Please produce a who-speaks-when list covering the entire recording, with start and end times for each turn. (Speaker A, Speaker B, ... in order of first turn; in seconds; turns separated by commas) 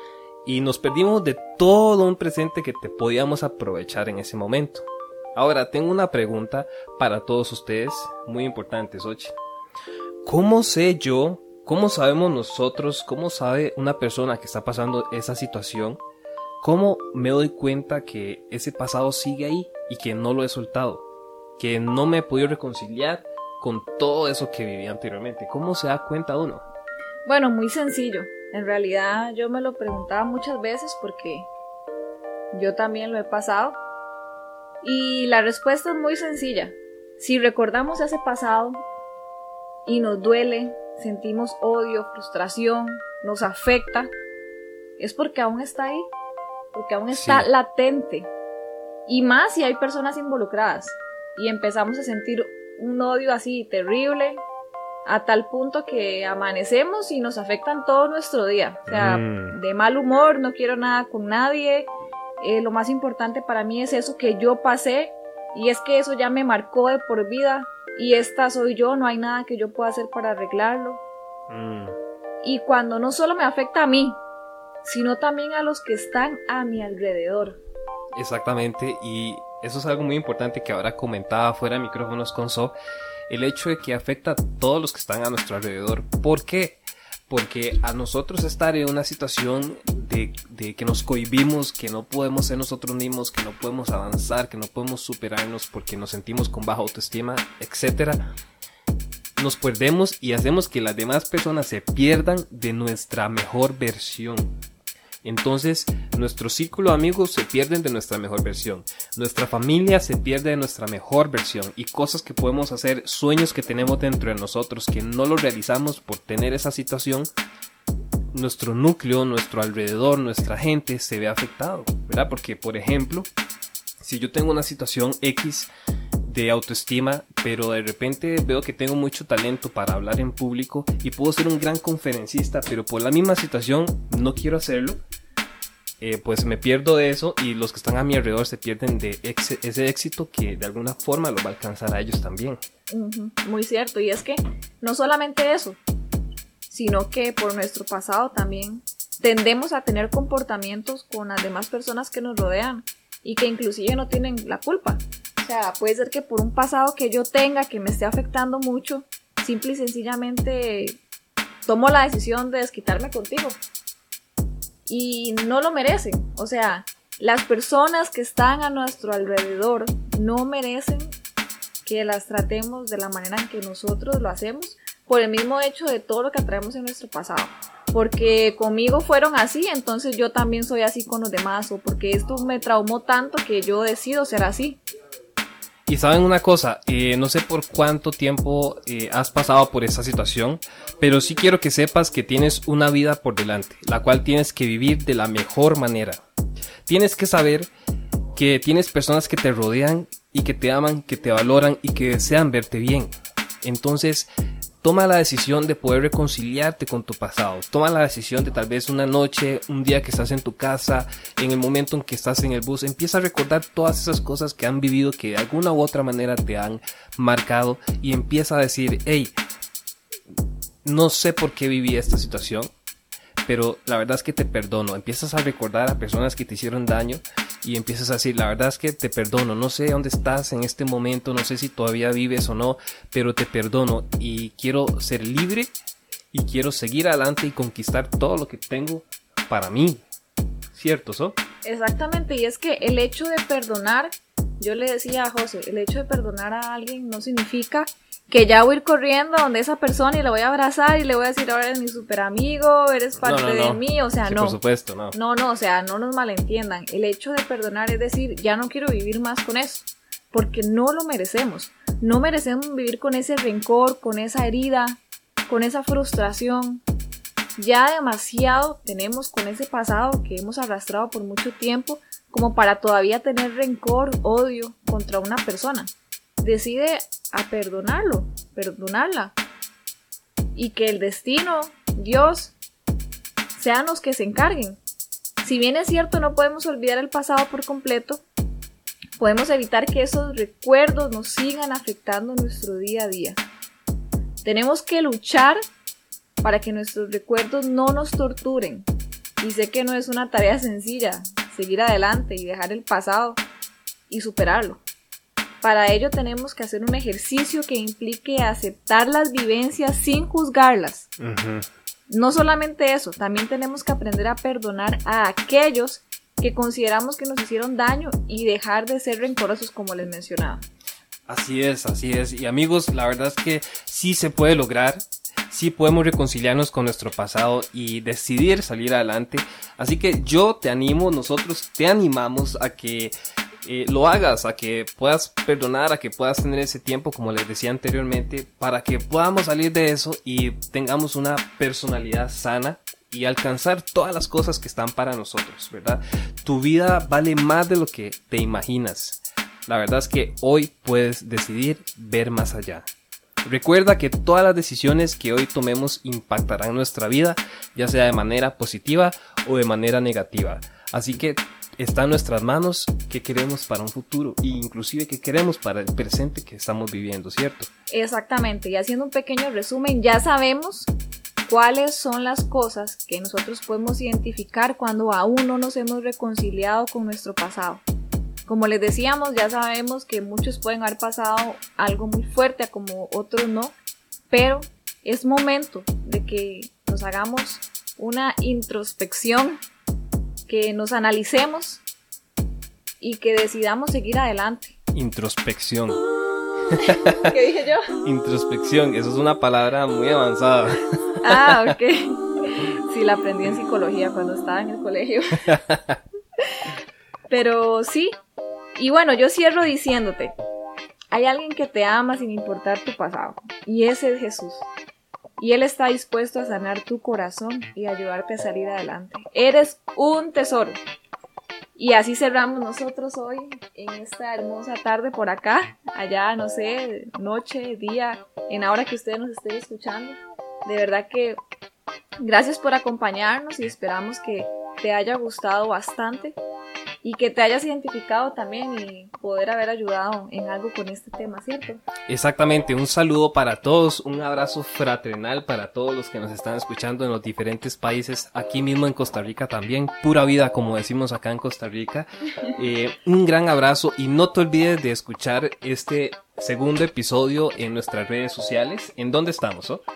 Speaker A: 0.4-9.3, Speaker A: 10.2-16.0, Speaker A: 16.6-21.1, Speaker A: 21.6-26.6, Speaker B: 27.2-31.5, Speaker B: 32.5-33.8, Speaker B: 34.8-38.8, Speaker B: 39.9-44.1, Speaker B: 45.0-46.1, Speaker B: 46.7-48.3, Speaker A: 47.1-47.5, Speaker B: 49.1-54.4, Speaker B: 55.0-71.0, Speaker A: 58.9-59.5, Speaker A: 71.5-72.0, Speaker B: 72.4-74.2, Speaker B: 74.8-77.6, Speaker A: 78.1-82.7, Speaker A: 83.3-98.2, Speaker A: 99.4-104.5, Speaker A: 105.2-117.3, Speaker A: 118.3-123.3, Speaker A: 124.0-125.7, Speaker A: 126.2-135.0, Speaker A: 136.0-142.6, Speaker B: 142.9-145.8, Speaker B: 146.7-161.0, Speaker B: 161.7-163.6, Speaker B: 164.9-171.1, Speaker B: 171.8-184.8, Speaker A: 185.9-196.2, Speaker A: 196.8-197.7, Speaker A: 198.3-203.1, Speaker A: 203.6-204.3, Speaker A: 204.8-219.3, Speaker A: 220.8-222.7, Speaker A: 223.4-235.7, Speaker A: 236.3-240.0, Speaker A: 240.7-241.4, Speaker B: 241.6-254.6, Speaker A: 253.2-255.2, Speaker B: 255.1-266.8, Speaker B: 267.6-279.3, Speaker B: 280.5-282.6, Speaker B: 283.6-284.8, Speaker B: 285.4-288.2, Speaker B: 289.2-293.4, Speaker B: 294.4-295.6, Speaker B: 296.4-298.9, Speaker B: 299.4-303.4, Speaker B: 304.1-304.8, Speaker B: 305.6-311.1, Speaker A: 311.2-311.6, Speaker B: 312.1-320.6, Speaker A: 321.3-333.1, Speaker A: 333.6-352.8, Speaker A: 353.4-367.7, Speaker B: 367.9-370.9, Speaker B: 371.5-377.8, Speaker B: 378.5-383.7, Speaker B: 384.3-389.6, Speaker B: 390.5-391.8, Speaker B: 393.0-394.8, Speaker A: 394.9-396.0, Speaker A: 396.8-397.3, Speaker B: 396.8-397.9, Speaker A: 398.0-401.7, Speaker B: 401.2-405.5, Speaker A: 405.4-406.0, Speaker B: 407.3-408.2, Speaker B: 408.8-410.3, Speaker B: 411.1-414.7, Speaker B: 415.4-420.8, Speaker B: 421.8-431.4, Speaker B: 432.2-436.4, Speaker B: 437.0-441.8, Speaker A: 442.1-459.8